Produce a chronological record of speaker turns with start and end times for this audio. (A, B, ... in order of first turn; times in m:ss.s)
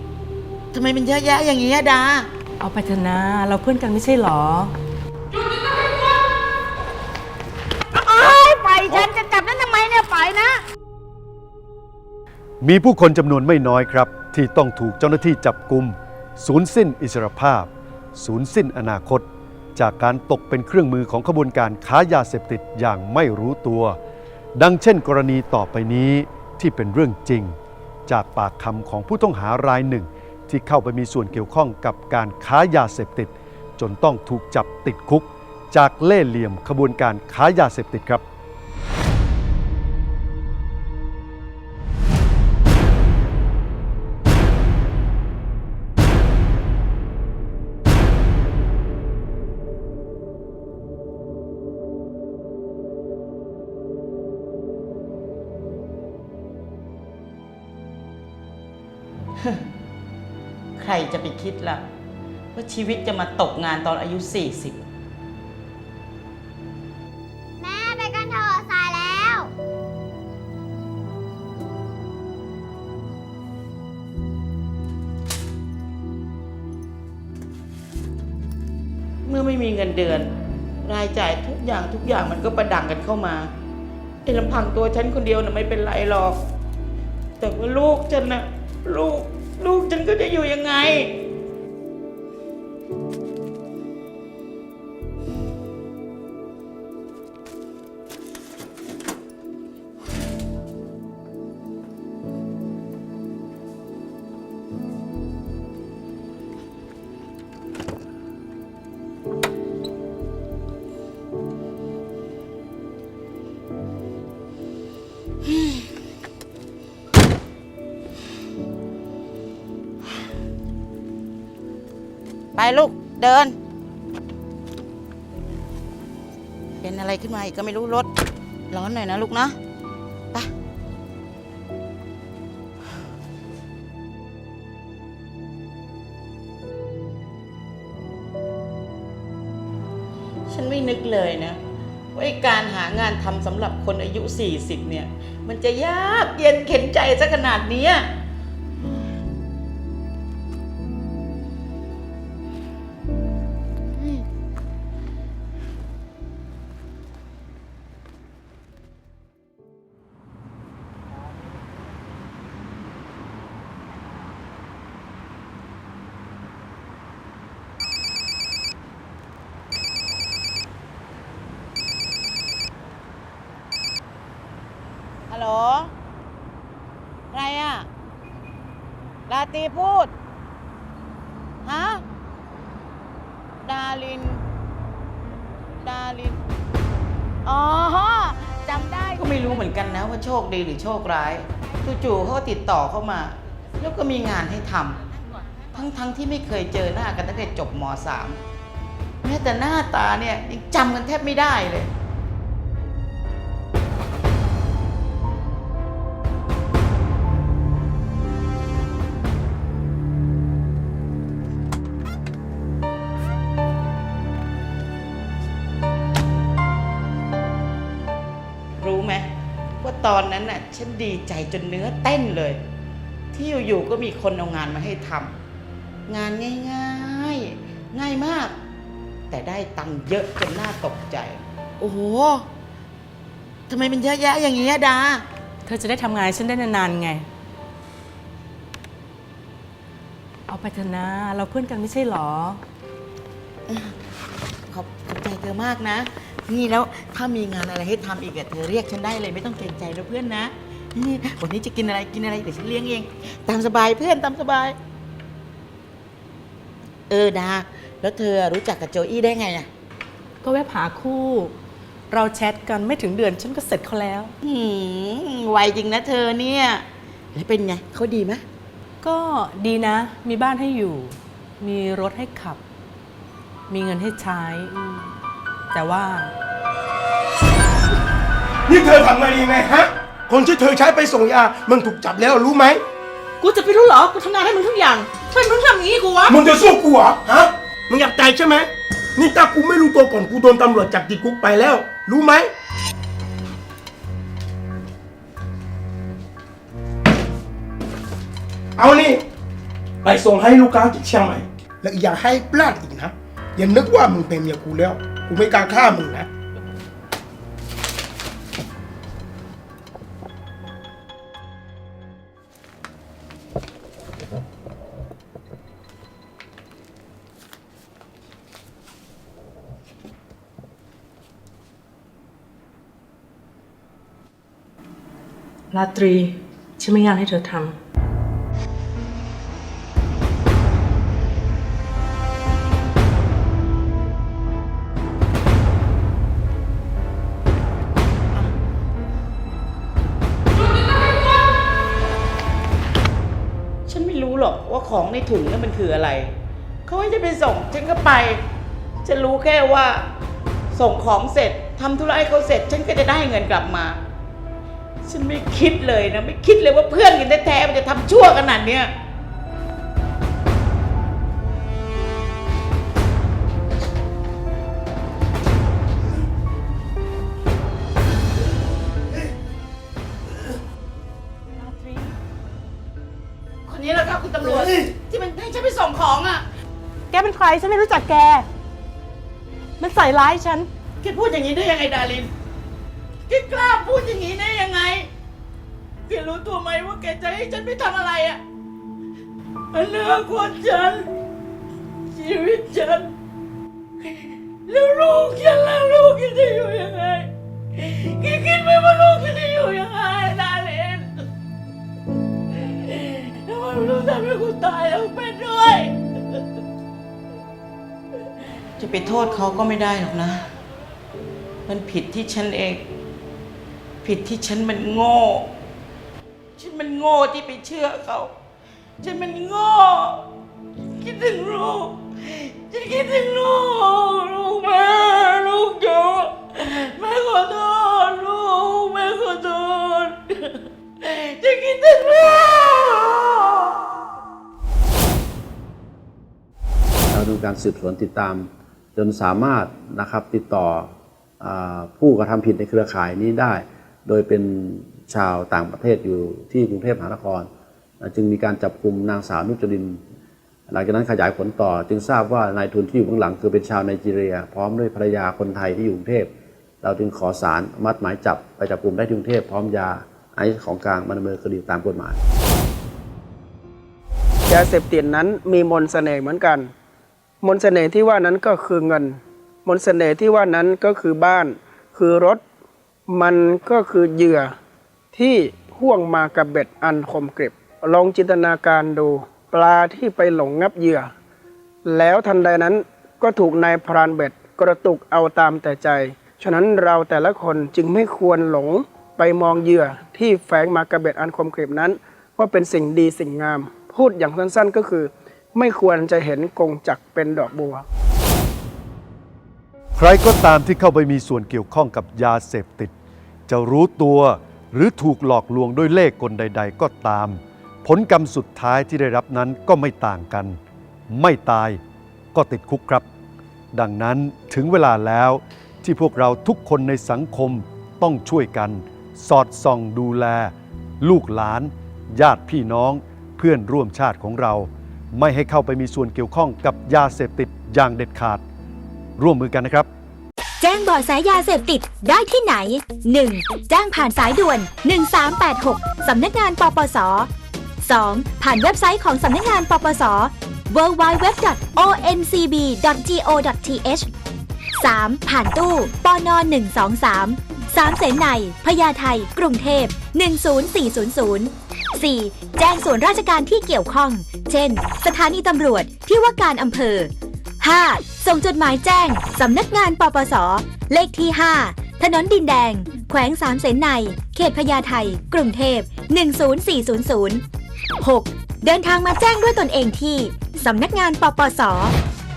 0:00.7-0:02.3 A
0:02.6-0:04.7 B
0:08.0-0:10.5 A
0:12.6-0:19.2 C
0:19.8-0:24.0 C
0:24.6-0:27.5 C
0:28.1-0:38.2 C
1:00.8-1:01.8 A
1:02.5-1:04.8 A
1:07.6-1:09.5 D
1:19.2-1:23.5 A
1:24.2-1:26.4 A
1:27.4-1:31.2 A
1:55.5-1:55.8 A
2:02.6-2:03.6 A
2:06.8-2:08.1 A
2:08.7-2:09.6 A
2:20.5-2:21.6 A
2:22.1-2:28.1 A
2:55.3-2:55.9 A
2:57.3-2:57.9 A
2:59.3-3:00.1 A
3:01.6-3:02.0 A
3:03.6-3:04.4 A
3:05.8-3:06.4 A
3:07.4-3:15.0 A
3:15.7-3:18.4 A
3:19.2-3:21.9 A
3:38.8-3:39.3 A
3:39.8-3:42.6 A
3:43.3-3:45.4 A
3:46.1-3:48.6 A
3:49.3-3:52.5 A
3:53.7-3:55.2 A
3:55.6-3:57.2 B
4:00.5-4:02.6 B
4:03.7-4:03.9 A
4:04.7-4:14.8 A
4:17.1-4:19.7 A
4:20.4-4:21.5 B
4:22.1-4:24.3 B
4:24.4-4:28.4 A
4:29.0-4:32.6 B
4:33.7-4:35.1 B
4:35.7-4:36.3 B
4:38.7-4:42.8 E
4:43.4-4:46.4 B
4:46.2-4:52.5 E
4:58.8-4:59.2 E
5:00.0-5:06.3 E
5:25.7-5:27.7 B
5:43.9-5:48.4 A
5:49.0-5:50.1 A
5:50.7-5:54.0 A
5:55.0-5:58.9 A
6:11.6-6:12.1 B
6:13.6-6:16.4 A
6:17.1-6:18.5 B
6:19.8-6:20.7 B
6:21.0-6:22.3 A
6:23.3-6:25.1 A
6:26.1-6:28.4 A
6:29.7-6:31.1 A
6:32.1-6:33.1 A
6:34.5-6:41.2 A
6:42.6-6:46.0 A
6:48.8-6:50.5 A
6:51.6-6:52.8 A
6:54.0-6:55.5 A
6:56.6-6:58.3 A
6:59.0-7:00.3 A
7:01.0-7:13.7 A
7:17.1-7:27.5 F
7:28.0-7:30.0 F
7:30.7-7:36.3 F
7:36.8-7:42.2 F
7:44.5-7:46.7 G
7:47.4-7:52.4 G
7:53.1-7:54.5 G
7:55.1-8:01.1 G
8:01.8-8:17.8 G
8:20.0-8:22.9 C
8:23.5-8:30.6 C
8:31.1-8:31.8 C
8:32.3-8:33.0 C
8:33.7-8:48.4 C
8:49.2-8:49.9 C
8:50.6-8:57.3 H
8:57.8-9:04.1 H
9:04.8-9:27.4 H
9:28.0-9:31.9 H